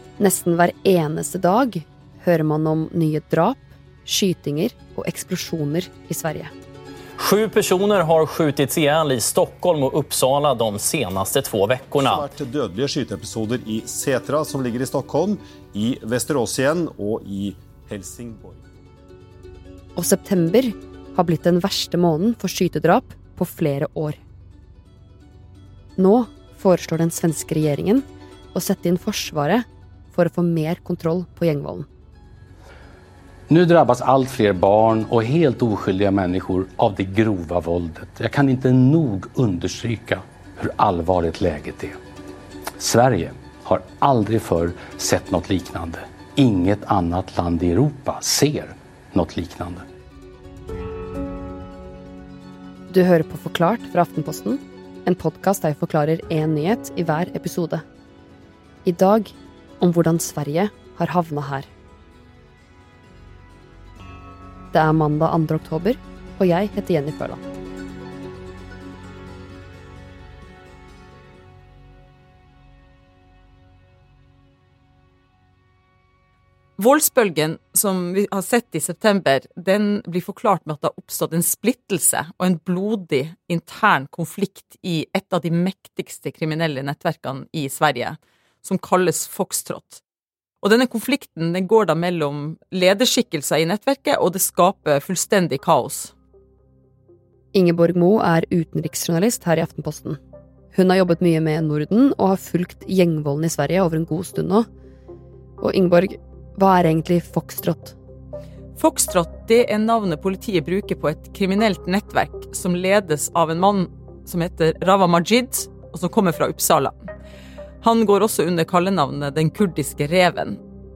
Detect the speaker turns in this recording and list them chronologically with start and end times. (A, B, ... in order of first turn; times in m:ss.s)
0:00.2-0:06.5 A
0:07.2-0:12.2 B
0:11.9-0:18.7 C
0:20.0-0:24.2 A
0:26.0-0:31.9 A
0:33.5-0:42.0 D
0:42.8-0:49.8 D
0:52.9-0:57.8 A
0:58.8-1:01.7 A
1:04.7-1:07.4 A
1:16.8-1:30.0 E
1:30.6-1:36.1 E
1:37.5-1:40.2 A
1:40.7-1:44.6 A
1:45.6-1:48.0 A
1:48.8-1:57.0 E
1:57.8-2:00.6 E